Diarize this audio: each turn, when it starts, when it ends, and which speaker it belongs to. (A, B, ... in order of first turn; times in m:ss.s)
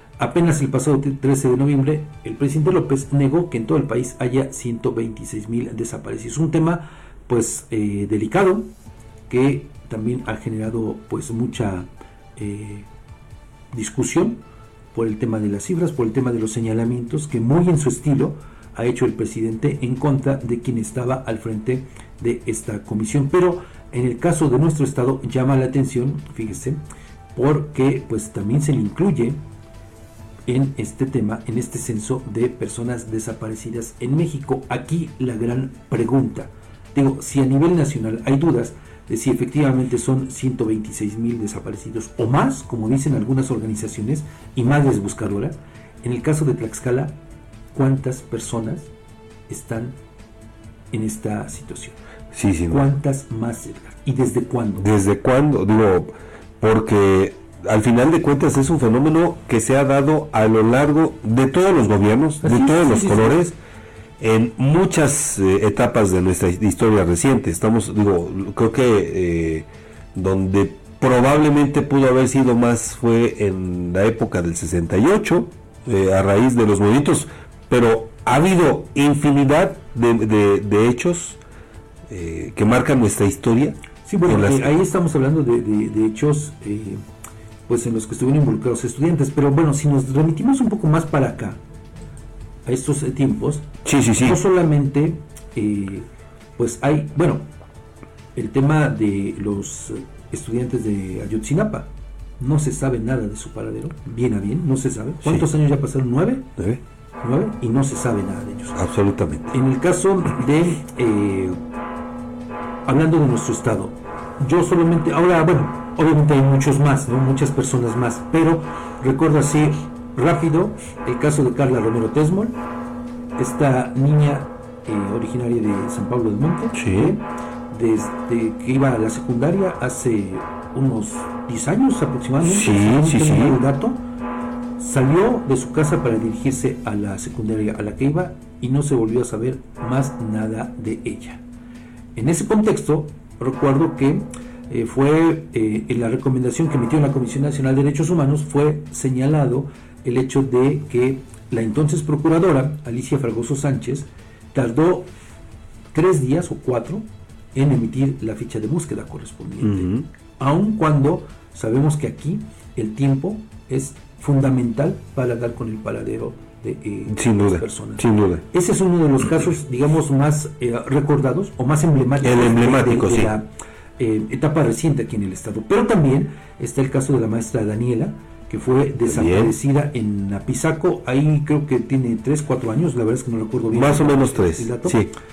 0:00.2-0:08.7 A
0:09.3-0:12.9 A
0:13.7-0:14.4 A
0:14.9-0:26.8 A
0:27.4-0:29.4 A
0:30.5-0:47.2 A
0:47.8-0:48.9 A
0:49.5-0:50.0 A
0:50.9-0:52.0 A
0:52.3-0:52.8 B
0:52.7-0:54.9 A
0:54.8-1:03.6 B
1:02.4-1:03.4 A
1:04.2-1:21.4 B
1:22.1-1:24.7 B
1:24.0-1:27.0 A
1:27.7-1:31.6 A
1:32.7-1:36.1 A
1:33.8-1:34.4 B
1:36.6-1:37.4 A
1:38.4-1:46.5 A
1:47.2-1:48.8 A
1:48.8-1:49.6 B
1:49.5-1:51.6 A
1:52.9-2:02.5 A
2:03.4-2:14.0 A
2:06.7-2:07.1 B
2:12.4-2:13.6 B
2:14.8-2:21.4 A
2:22.2-2:35.1 A
2:35.9-3:05.0 A
2:39.6-2:40.0 B
2:47.1-2:48.4 B
2:52.2-2:53.3 B
2:59.0-2:59.5 B
3:03.7-3:05.1 B